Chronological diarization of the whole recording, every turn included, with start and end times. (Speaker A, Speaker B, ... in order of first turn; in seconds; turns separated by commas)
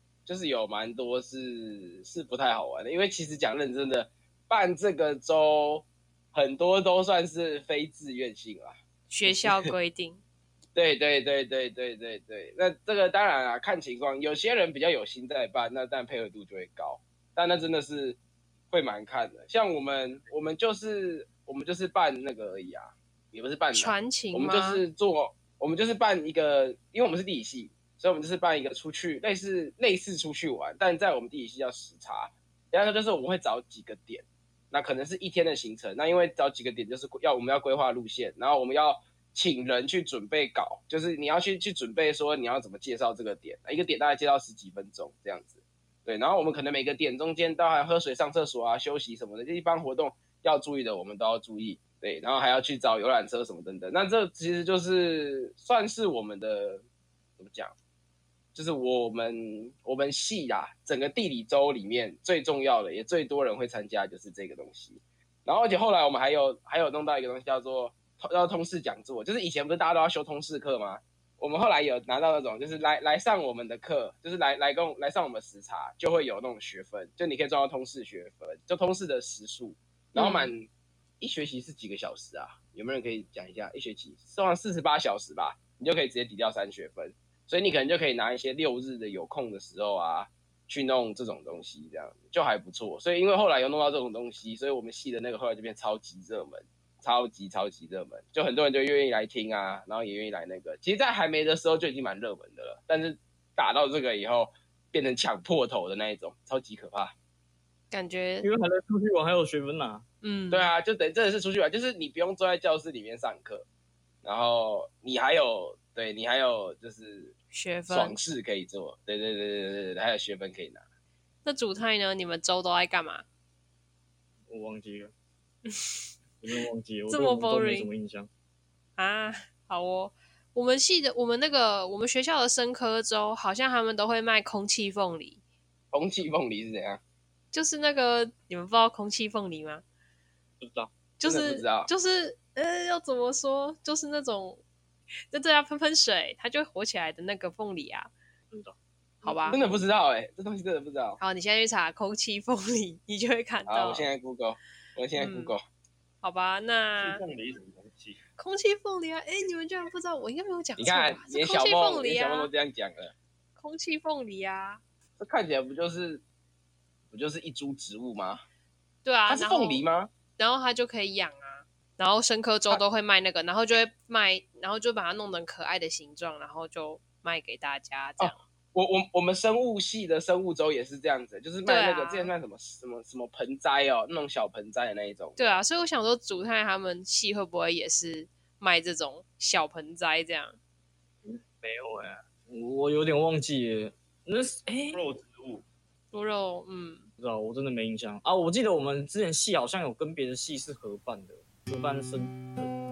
Speaker A: 0.3-8.7, Speaker B: 9.1-10.2, Speaker A: 9.2-9.6, Speaker A: 10.8-18.2, Speaker A: 18.7-56.8, Speaker B: 23.7-24.8, Speaker A: 57.4-57.7, Speaker A: 58.5-80.7, Speaker B: 80.2-80.5, Speaker A: 81.2-107.1, Speaker B: 107.9-108.5, Speaker C: 108.4-110.0, Speaker B: 110.2-110.7, Speaker A: 110.5-113.7, Speaker A: 114.2-117.3, Speaker B: 117.5-118.2, Speaker A: 117.9-120.8, Speaker B: 121.5-123.2, Speaker C: 124.5-125.1, Speaker B: 125.7-126.0, Speaker C: 126.4-128.3, Speaker B: 127.1-127.9, Speaker B: 129.0-135.4, Speaker A: 135.9-137.0, Speaker B: 137.5-139.8, Speaker C: 140.6-140.9, Speaker B: 141.2-144.6, Speaker A: 141.2-141.9, Speaker B: 145.3-148.1, Speaker C: 148.5-149.9, Speaker B: 149.2-149.6, Speaker A: 149.5-151.2, Speaker B: 151.2-154.1, Speaker A: 153.7-155.6, Speaker B: 155.2-155.6, Speaker B: 156.2-157.2, Speaker D: 157.0-158.2, Speaker B: 158.4-162.5, Speaker A: 160.8-163.1, Speaker B: 163.6-164.8, Speaker A: 165.2-166.2, Speaker A: 167.1-168.4, Speaker B: 169.0-169.8, Speaker A: 169.3-170.1, Speaker B: 170.4-178.4, Speaker A: 178.2-185.5, Speaker B: 181.7-182.3, Speaker B: 185.4-190.6, Speaker C: 191.2-195.0, Speaker D: 194.9-195.7, Speaker B: 196.1-197.1, Speaker C: 197.2-202.7